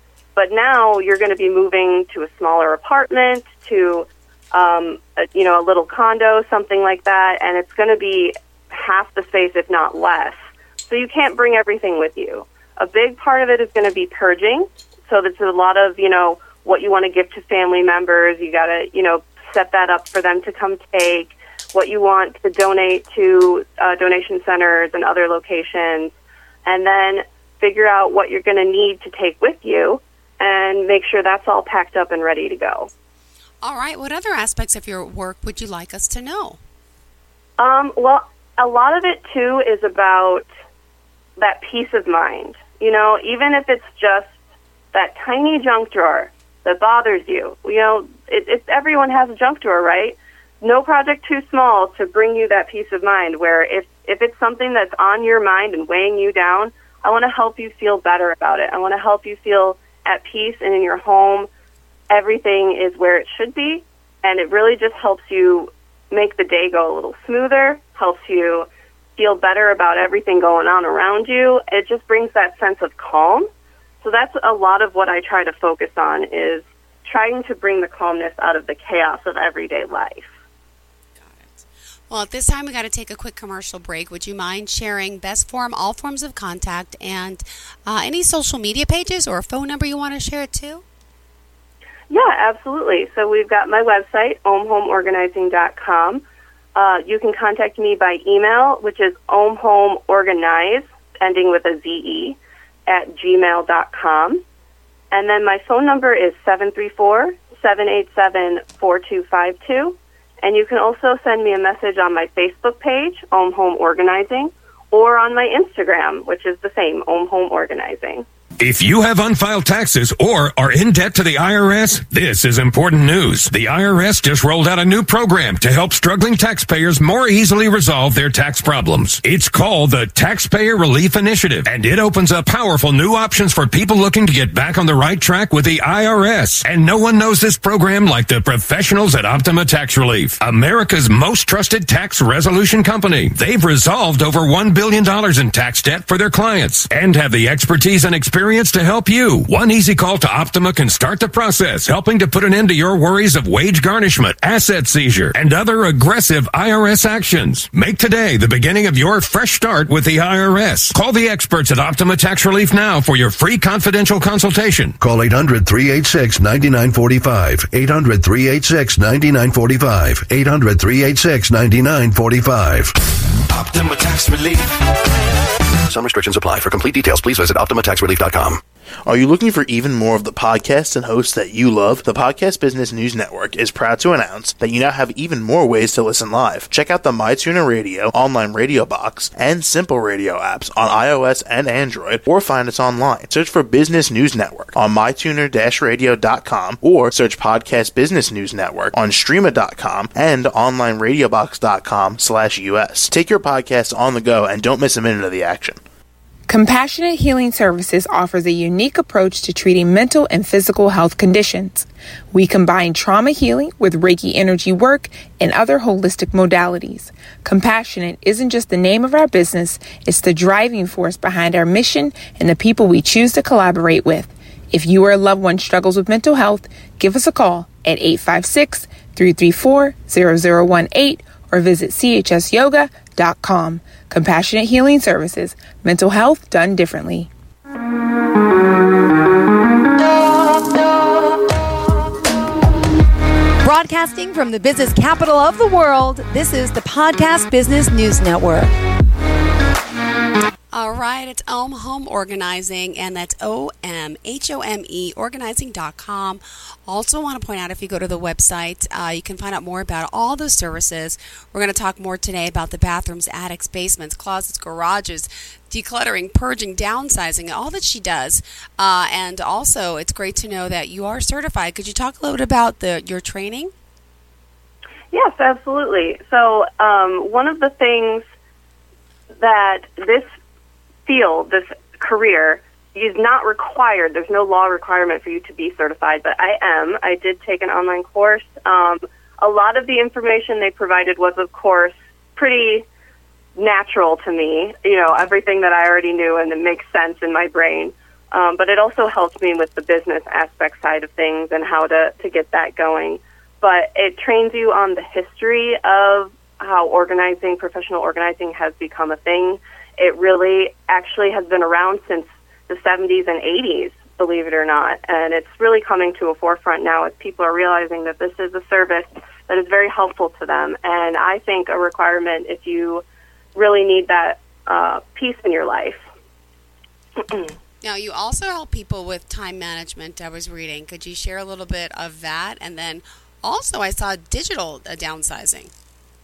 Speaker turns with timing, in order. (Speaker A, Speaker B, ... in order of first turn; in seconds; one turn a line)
Speaker A: 0.4-26.1
Speaker A: 26.6-32.9
Speaker B: 33.6-36.6
Speaker A: 37.6-40.4
Speaker A: 41.4-44.3
Speaker A: 44.9-61.5
Speaker A: 62.1-73.5
Speaker A: 74.0-80.3
Speaker B: 81.2-90.8
Speaker A: 92.1-96.2
Speaker A: 96.8-104.4
Speaker A: 105.1-118.2
Speaker C: 118.6-164.9
Speaker D: 165.0-172.9
Speaker D: 175.9-178.6
Speaker E: 179.1-205.8
Speaker F: 206.5-237.3
Speaker G: 243.6-248.7
Speaker B: 250.7-273.7
Speaker A: 275.1-278.2
Speaker A: 279.4-280.2
Speaker A: 281.1-292.9
Speaker A: 293.6-323.0
Speaker A: 323.5-326.0
Speaker A: 327.2-327.5
Speaker B: 327.8-335.7